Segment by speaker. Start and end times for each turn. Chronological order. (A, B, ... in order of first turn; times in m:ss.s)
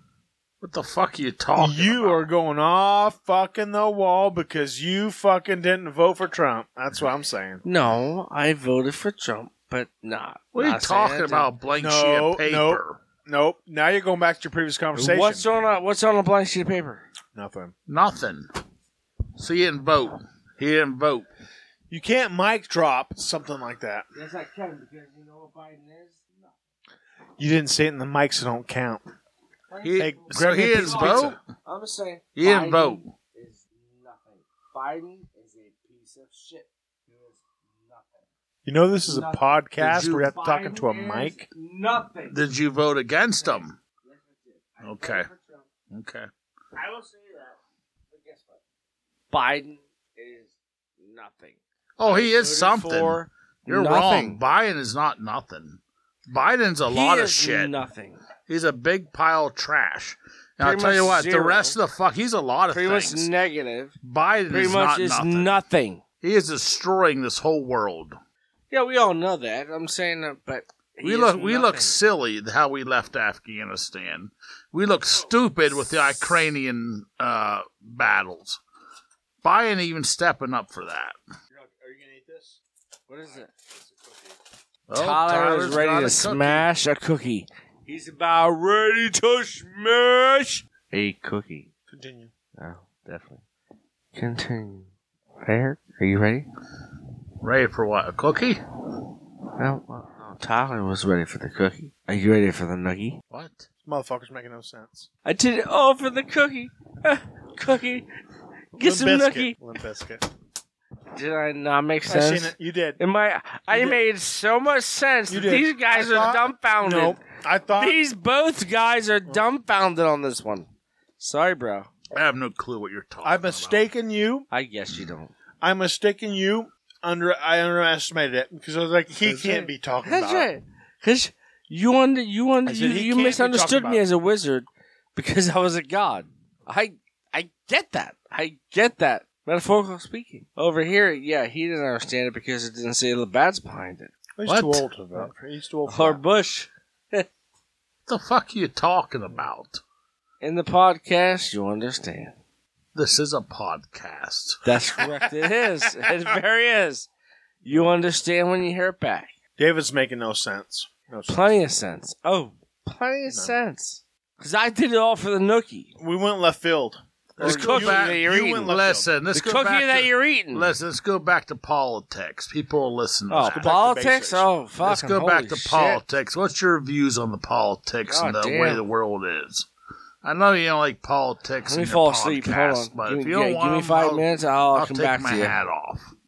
0:00.6-0:02.3 A
0:01.6-0:07.6 B
0:07.6-0:11.5 C
0:10.5-0:13.0 A
0:11.7-0:15.5 B
0:14.9-0:17.0 C
0:17.3-0:17.7 B
0:17.9-0:18.5 A
0:19.4-0:21.3 A
0:21.9-0:24.0 B
0:24.1-0:26.5 C
0:27.4-0:29.0 B
0:29.7-0:38.2 C
0:29.8-0:31.4 A
0:30.0-0:31.4 B
0:32.4-0:33.1 A
0:38.6-0:41.5 B
0:39.0-0:39.4 C
0:39.8-0:40.3 A
0:40.1-0:42.4 C
0:42.3-0:43.8 A
0:43.4-0:45.7 C
0:44.8-0:45.3 A
0:45.9-0:46.3 A
0:46.7-0:47.6 C
0:48.1-0:48.6 C
0:49.3-0:54.4 C
0:52.0-0:57.7 A
0:56.9-0:58.2 C
0:58.5-1:03.3 A
1:00.6-1:01.8 C
1:02.7-1:03.9 C
1:04.0-1:05.6 A
1:04.5-1:06.0 C
1:06.2-1:08.2 A
1:08.7-1:11.9 C
1:11.0-1:18.6 A
1:19.4-1:21.2 A
1:21.5-1:22.6 B
1:23.1-1:23.5 C
1:23.5-1:24.2 B
1:24.9-1:26.7 A
1:24.9-1:31.7 C
1:31.9-1:32.3 B
1:32.6-1:33.4 C
1:34.1-1:34.9 C
1:35.4-1:36.5 C
1:37.4-1:38.6 A
1:39.6-1:43.2 C
1:43.3-1:43.7 A
1:43.8-1:45.1 B
1:45.2-1:48.1 C
1:48.7-1:49.6 C
1:48.8-1:50.2 B
1:51.1-1:57.2 C
1:52.1-1:53.0 B
1:53.7-1:54.0 B
1:55.3-1:58.0 B
1:57.7-2:01.9 C
2:02.1-2:03.9 A
2:03.2-2:04.4 B
2:04.5-2:05.3 C
2:05.6-2:10.5 B
2:09.2-2:24.1 C
2:12.6-2:14.0 B
2:24.4-2:26.2 B
2:24.4-2:25.3 A
2:25.9-2:27.2 C
2:28.1-2:29.8 A
2:30.4-2:32.4 C
2:32.9-2:34.6 A
2:34.6-2:37.1 C
2:35.0-2:36.1 B
2:37.6-2:37.9 B
2:37.6-2:39.3 C
2:39.6-2:41.6 B
2:41.3-2:45.9 C
2:43.3-2:43.5 B
2:46.0-2:49.1 B
2:47.4-2:53.7 A
2:47.4-2:48.7 C
2:49.3-2:50.7 C
2:53.3-2:56.0 C
2:53.5-2:54.5 B
2:54.8-2:59.7 A
2:58.1-2:58.8 C
3:00.2-3:06.0 A
3:01.6-3:05.6 C